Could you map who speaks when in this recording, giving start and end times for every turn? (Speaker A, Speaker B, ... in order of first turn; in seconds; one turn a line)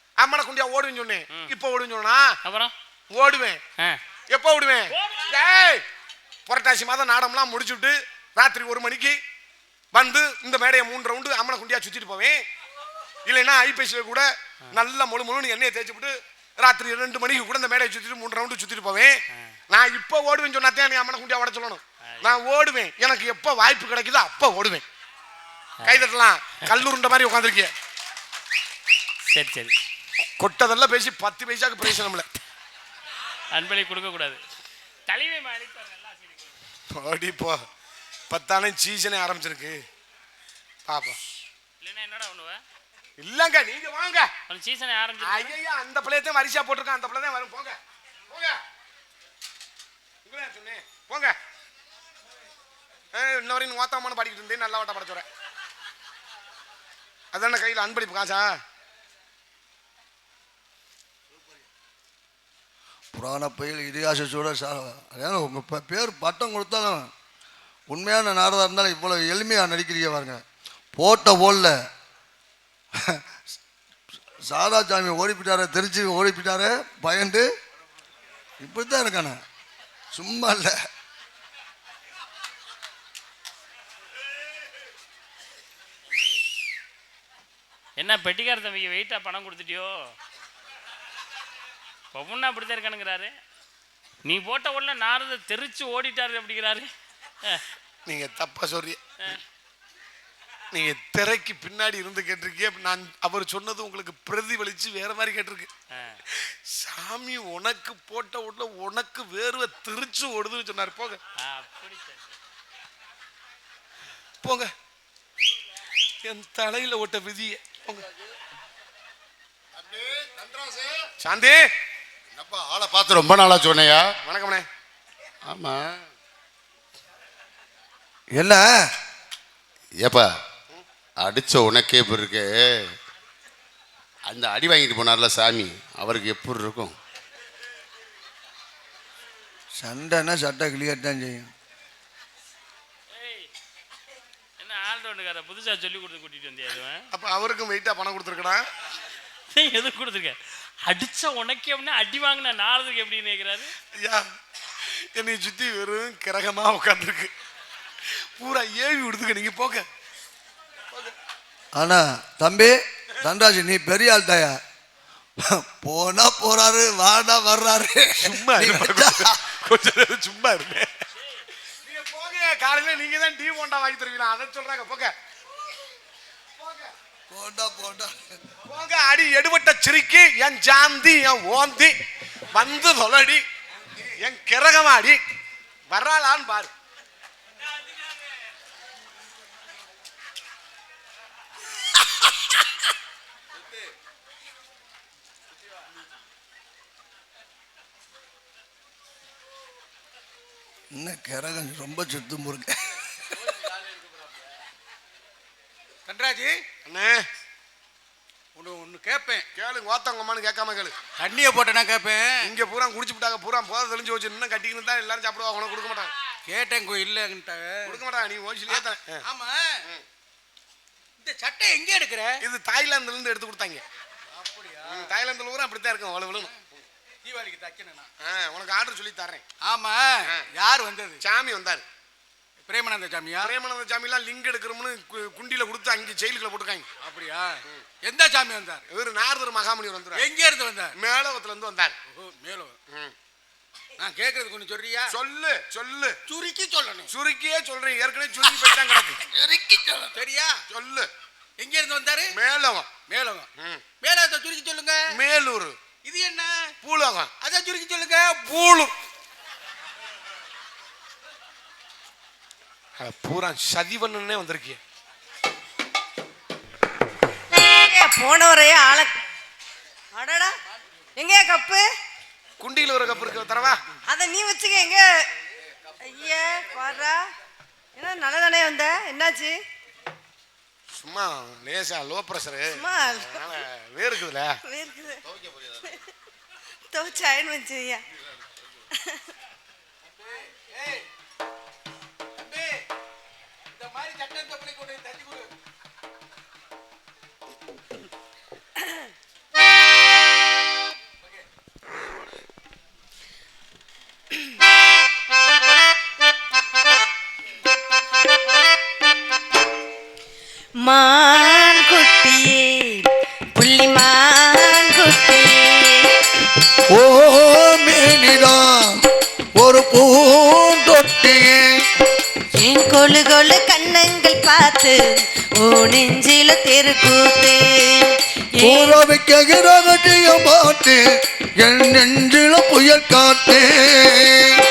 Speaker A: 0.2-2.4
Speaker B: 2.5-2.7
Speaker A: 3.1-3.6
Speaker A: 4.3-5.8
Speaker B: 4.9-5.3
Speaker A: 6.5-9.2
Speaker A: 9.9-12.4
Speaker A: 13.2-24.9
Speaker B: 25.8-26.1
Speaker A: 25.9-27.7
Speaker B: 29.3-29.7
Speaker A: 30.4-32.3
Speaker B: 33.5-34.4
Speaker B: 35.1-36.6
Speaker A: 36.9-37.6
Speaker A: 38.3-39.8
Speaker A: 40.9-41.2
Speaker B: 41.8-42.6
Speaker A: 43.2-44.3
Speaker B: 44.5-45.5
Speaker A: 45.2-47.8
Speaker A: 48.3-48.6
Speaker A: 50.2-51.4
Speaker A: 53.1-55.3
Speaker A: 57.3-58.6
Speaker C: 63.1-67.1
Speaker C: 67.9-70.4
Speaker C: 71.0-71.8
Speaker C: 74.4-77.5
Speaker C: 78.6-79.4
Speaker C: 80.1-80.8
Speaker B: 88.0-90.0
Speaker B: 92.1-93.3
Speaker B: 94.2-96.9
Speaker A: 98.1-99.0
Speaker A: 100.7-105.7
Speaker B: 105.9-106.2
Speaker A: 106.3-111.2
Speaker B: 111.4-112.3
Speaker A: 114.4-114.7
Speaker A: 116.2-118.0
Speaker A: 121.2-121.6
Speaker D: 122.3-124.1
Speaker A: 124.2-124.7
Speaker D: 125.5-126.0
Speaker C: 128.3-128.8
Speaker D: 130.0-130.3
Speaker D: 131.2-132.8
Speaker D: 134.3-136.9
Speaker C: 139.8-141.5
Speaker B: 143.2-143.5
Speaker B: 144.6-147.0
Speaker A: 147.1-148.6
Speaker B: 149.5-153.7
Speaker A: 154.0-154.2
Speaker A: 155.2-157.3
Speaker A: 158.4-159.8
Speaker C: 161.8-164.6
Speaker C: 165.4-169.4
Speaker A: 168.2-170.9
Speaker A: 171.8-175.1
Speaker C: 177.3-178.2
Speaker A: 178.7-181.9
Speaker A: 182.5-183.4
Speaker A: 184.2-185.2
Speaker A: 185.9-186.7
Speaker C: 200.9-203.0
Speaker E: 206.1-206.7
Speaker A: 206.8-207.2
Speaker E: 208.6-209.5
Speaker A: 209.6-210.9
Speaker E: 211.2-212.5
Speaker A: 212.4-216.1
Speaker E: 216.5-218.0
Speaker A: 217.8-219.2
Speaker E: 218.7-219.7
Speaker E: 221.2-222.4
Speaker A: 222.4-223.8
Speaker E: 224.3-225.1
Speaker A: 224.8-226.6
Speaker E: 227.2-228.1
Speaker A: 228.2-229.4
Speaker E: 229.6-231.2
Speaker A: 231.2-231.8
Speaker E: 232.7-233.6
Speaker A: 233.4-236.9
Speaker E: 237.0-238.8
Speaker A: 238.9-240.3
Speaker E: 240.2-240.9
Speaker A: 241.0-241.9
Speaker E: 242.1-242.8
Speaker E: 244.0-245.1
Speaker A: 245.1-246.2
Speaker E: 246.3-247.1
Speaker A: 247.1-249.2
Speaker E: 249.3-250.6
Speaker A: 250.7-251.1
Speaker E: 251.6-252.3
Speaker A: 252.3-252.9
Speaker E: 253.1-253.5
Speaker A: 253.6-253.8
Speaker E: 254.0-255.0
Speaker A: 255.1-255.8
Speaker E: 256.0-256.7
Speaker A: 256.8-257.3
Speaker E: 257.4-258.9
Speaker A: 263.0-264.8
Speaker F: 267.8-269.1
Speaker F: 270.1-270.5
Speaker F: 271.2-271.8
Speaker A: 272.6-273.8
Speaker F: 274.1-275.1
Speaker F: 276.1-277.2
Speaker F: 278.0-279.5
Speaker A: 281.0-284.6
Speaker F: 282.8-283.4
Speaker F: 284.7-285.2
Speaker F: 286.9-288.0
Speaker E: 290.5-291.1
Speaker E: 292.4-292.8
Speaker E: 293.8-295.5
Speaker F: 310.8-316.1
Speaker C: 316.9-319.0
Speaker C: 319.6-321.7
Speaker F: 322.6-325.0
Speaker F: 325.6-328.1
Speaker C: 328.6-331.0
Speaker F: 328.6-329.0
Speaker C: 331.6-334.6